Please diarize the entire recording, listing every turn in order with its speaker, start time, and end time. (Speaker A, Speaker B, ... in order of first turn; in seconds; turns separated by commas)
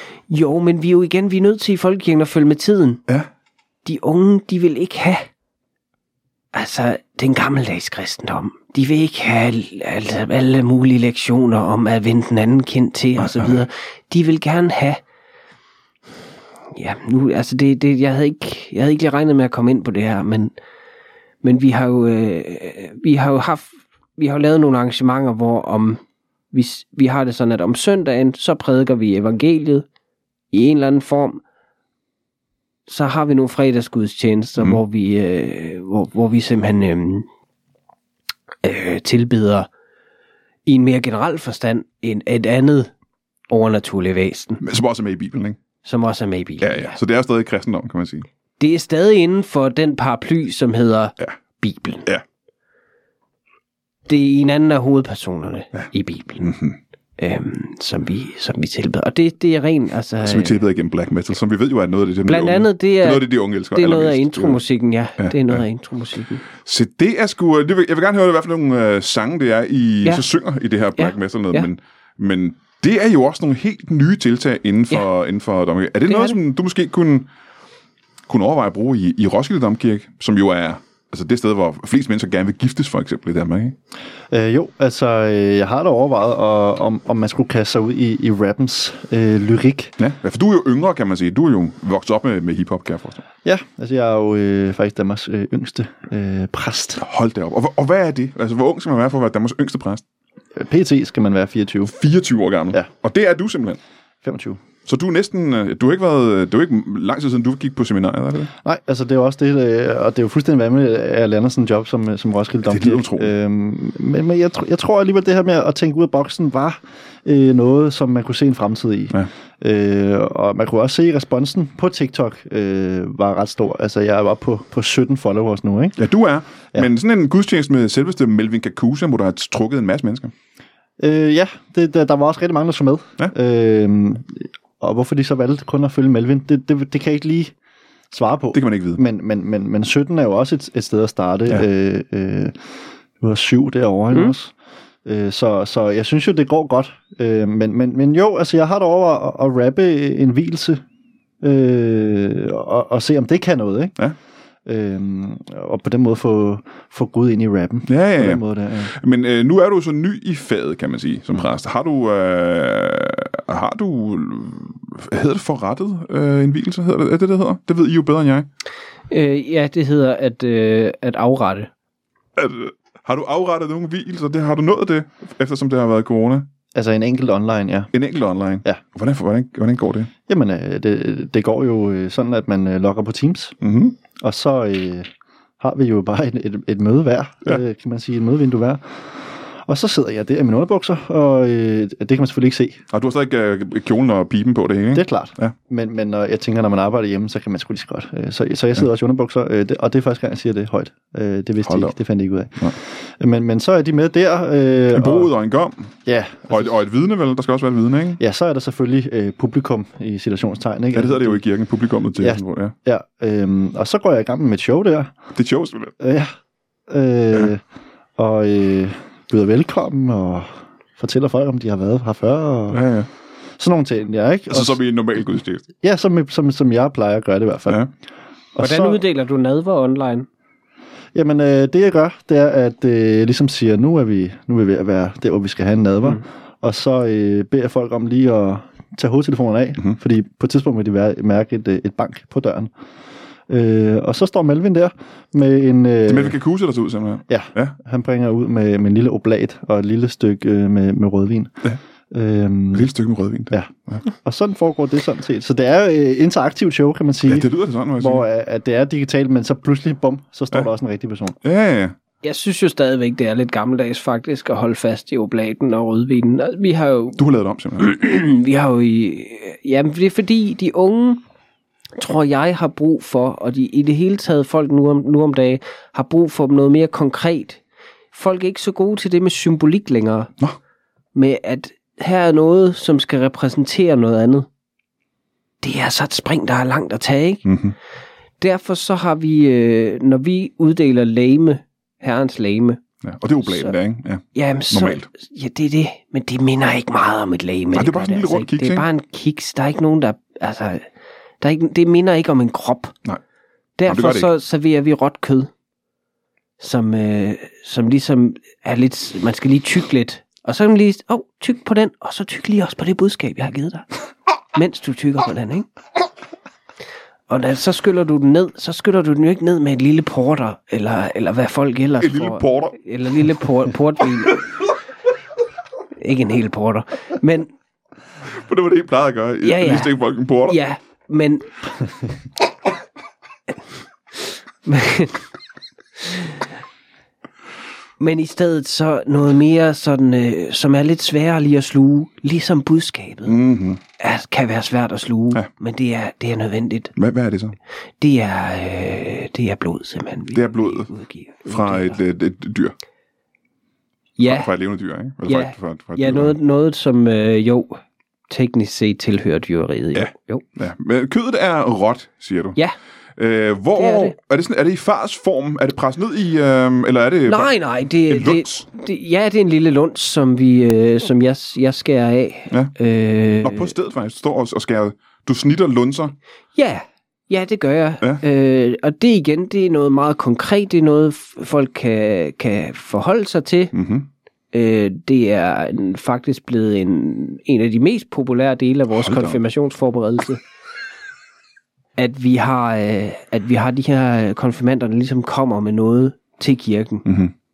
Speaker A: 0.3-3.0, Speaker A: 3.8-5.3, Speaker A: 6.5-15.0, Speaker B: 13.2-13.6, Speaker A: 16.7-20.5, Speaker A: 21.4-26.0, Speaker A: 26.5-29.8, Speaker A: 30.5-31.4, Speaker A: 32.9-37.2, Speaker A: 38.6-39.7, Speaker A: 40.6-42.9, Speaker A: 43.5-44.6, Speaker B: 44.6-45.6, Speaker A: 45.8-47.0, Speaker B: 46.6-48.2, Speaker A: 48.6-52.0, Speaker A: 54.1-56.5, Speaker B: 55.7-56.8, Speaker A: 57.2-60.6, Speaker B: 60.2-64.6, Speaker A: 62.2-66.4, Speaker B: 65.2-65.6, Speaker B: 66.6-77.3, Speaker A: 71.0-71.7, Speaker A: 76.1-76.4, Speaker B: 78.3-83.8, Speaker C: 84.3-89.9, Speaker B: 90.0-93.2, Speaker C: 93.4-97.0, Speaker B: 97.0-100.0, Speaker C: 100.5-101.9, Speaker B: 101.8-103.8, Speaker C: 104.2-104.6, Speaker B: 104.8-108.5, Speaker C: 108.6-126.0, Speaker B: 112.7-113.3, Speaker B: 126.0-130.3, Speaker C: 131.0-137.5, Speaker C: 138.1-142.6, Speaker B: 138.5-139.0, Speaker C: 143.2-144.5, Speaker C: 145.0-150.8, Speaker C: 151.4-153.9, Speaker C: 154.7-158.9, Speaker B: 157.9-168.5, Speaker A: 169.1-171.7, Speaker B: 172.3-176.5, Speaker C: 176.7-177.9, Speaker B: 177.9-180.1, Speaker C: 180.3-183.6, Speaker B: 183.6-184.0, Speaker C: 184.2-185.1, Speaker C: 185.6-192.8, Speaker B: 192.9-195.5, Speaker C: 194.9-205.3, Speaker B: 201.6-201.9, Speaker B: 204.9-205.9, Speaker C: 206.1-206.8, Speaker B: 206.5-208.2, Speaker C: 208.2-211.4, Speaker B: 210.9-212.7, Speaker C: 212.2-215.1, Speaker B: 215.3-215.9, Speaker C: 216.0-216.3, Speaker C: 216.9-217.6, Speaker C: 218.2-222.8, Speaker B: 222.7-223.1, Speaker C: 223.6-224.8, Speaker B: 224.5-225.7, Speaker C: 225.8-227.8, Speaker C: 228.5-229.0, Speaker A: 228.6-230.3, Speaker C: 231.1-242.7, Speaker C: 243.5-246.4, Speaker B: 246.1-247.8, Speaker C: 247.3-252.9, Speaker B: 252.7-254.0, Speaker C: 253.5-261.4, Speaker B: 257.2-258.2, Speaker B: 261.4-261.9, Speaker A: 262.2-267.2, Speaker B: 267.1-267.9, Speaker A: 267.8-271.2, Speaker A: 272.0-277.6, Speaker A: 278.1-280.3, Speaker A: 281.1-284.5, Speaker A: 285.6-287.4, Speaker B: 287.4-287.8, Speaker A: 288.4-292.8, Speaker B: 293.0-295.1, Speaker A: 293.4-293.7, Speaker A: 294.3-300.8, Speaker B: 297.7-298.9, Speaker A: 301.4-302.9, Speaker A: 303.8-305.5, Speaker B: 303.9-304.3, Speaker A: 306.6-313.9, Speaker A: 314.5-315.7, Speaker A: 317.3-324.4, Speaker B: 322.0-322.8, Speaker A: 326.0-327.5, Speaker B: 328.3-330.6, Speaker A: 329.4-331.5, Speaker A: 334.6-335.2, Speaker A: 336.0-336.4, Speaker A: 338.0-343.4, Speaker B: 343.2-343.8, Speaker A: 344.0-346.9, Speaker B: 346.9-347.6, Speaker A: 348.0-352.0, Speaker B: 350.3-350.9, Speaker B: 351.4-352.7, Speaker A: 354.2-354.5, Speaker B: 354.2-356.4, Speaker A: 355.2-360.4, Speaker B: 359.9-362.6, Speaker B: 363.2-367.5, Speaker A: 363.7-364.1, Speaker A: 367.3-373.7, Speaker B: 368.1-368.6, Speaker B: 373.4-376.1, Speaker A: 376.6-383.7, Speaker B: 383.7-384.1, Speaker A: 384.5-390.4, Speaker B: 388.9-389.4, Speaker A: 392.0-397.0, Speaker B: 397.0-397.3